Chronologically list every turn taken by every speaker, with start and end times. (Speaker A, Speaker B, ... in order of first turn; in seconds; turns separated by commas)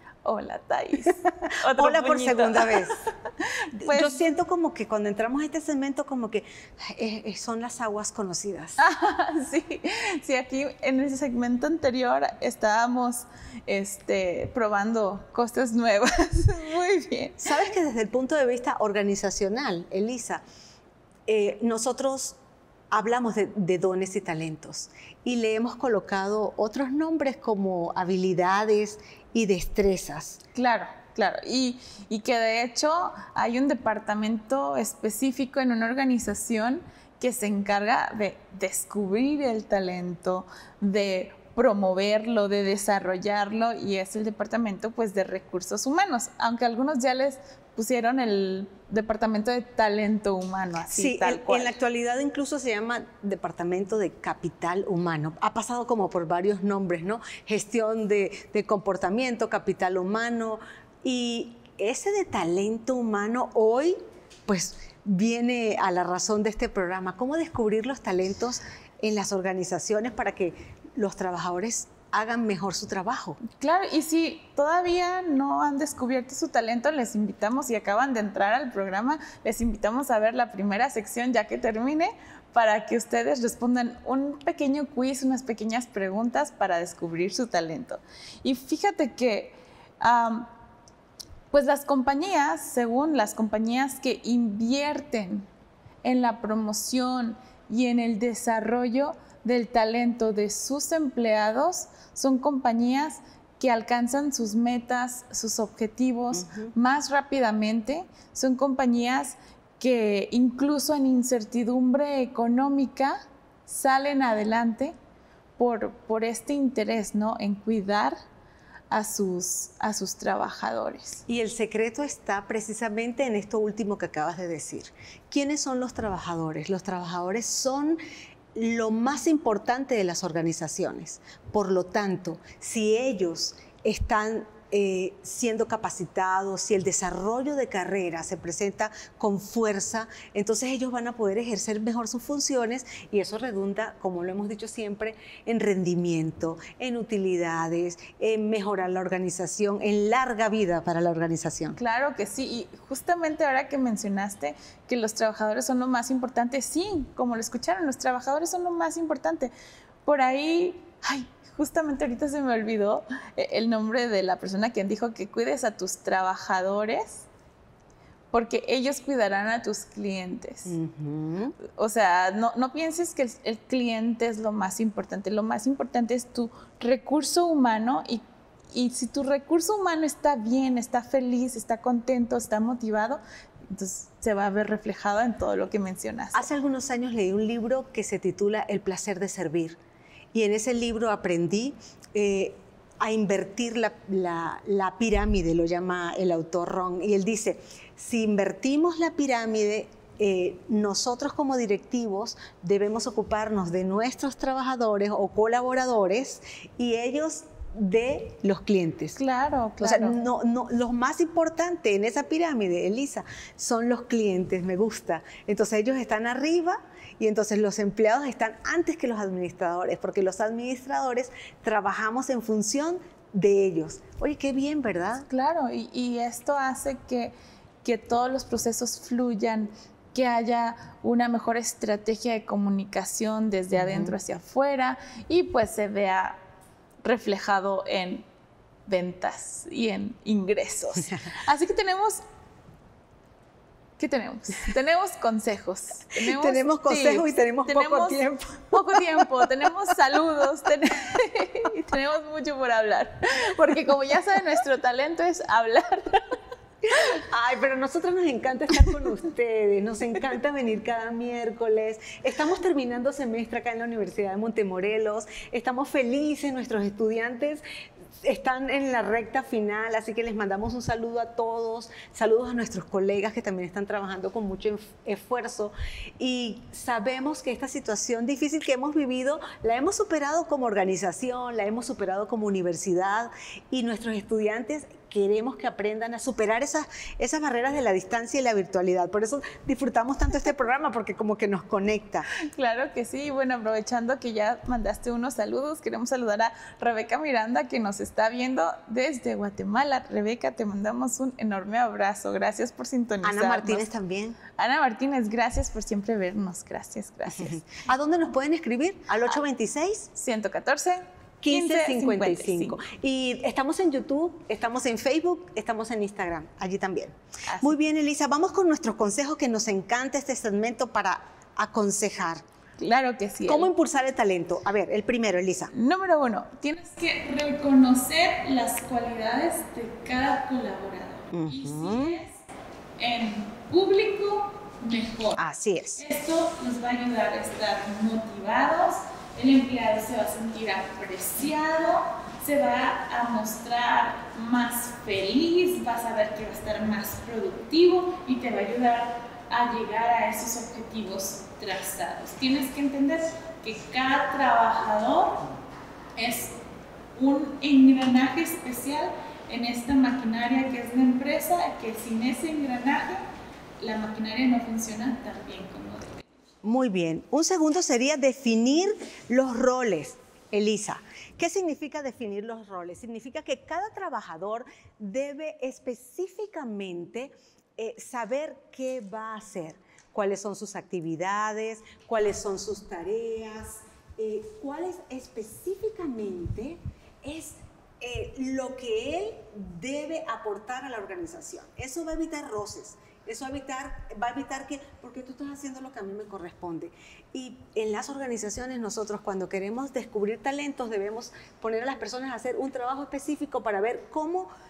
Speaker A: 0.2-4.2, Speaker B: 1.7-3.0, Speaker B: 3.8-8.8, Speaker A: 8.8-17.5, Speaker B: 17.4-20.4, Speaker B: 21.3-22.4, Speaker B: 22.9-30.4, Speaker A: 30.6-51.8, Speaker B: 50.9-73.4, Speaker A: 73.6-90.5, Speaker A: 91.5-95.5, Speaker A: 96.0-115.0, Speaker B: 106.3-106.7, Speaker A: 115.6-118.2, Speaker A: 118.9-121.2, Speaker B: 121.3-128.0, Speaker B: 128.6-151.8, Speaker A: 151.8-159.5, Speaker A: 160.1-167.3, Speaker A: 168.3-170.8, Speaker B: 170.7-171.6, Speaker A: 171.8-186.5, Speaker B: 186.3-189.8, Speaker B: 190.3-209.2, Speaker A: 209.2-210.2, Speaker B: 209.8-225.3, Speaker A: 225.3-236.4, Speaker B: 233.8-234.2, Speaker A: 237.0-238.2, Speaker A: 238.9-242.2, Speaker A: 244.0-248.2, Speaker B: 246.2-249.0, Speaker A: 248.7-256.4, Speaker B: 257.1-267.6, Speaker B: 268.2-292.3, Speaker A: 292.5-303.9, Speaker B: 303.2-304.4, Speaker A: 304.6-307.6, Speaker B: 307.3-310.1, Speaker A: 310.2-312.8, Speaker B: 311.4-322.4, Speaker A: 317.5-317.8, Speaker A: 322.8-323.7, Speaker B: 323.5-325.7, Speaker A: 325.7-332.4, Speaker B: 331.3-332.2, Speaker A: 333.0-335.4, Speaker B: 335.4-336.0, Speaker A: 336.0-355.4, Speaker A: 356.2-356.6, Speaker A: 357.1-363.2, Speaker A: 363.8-366.3, Speaker B: 366.6-404.5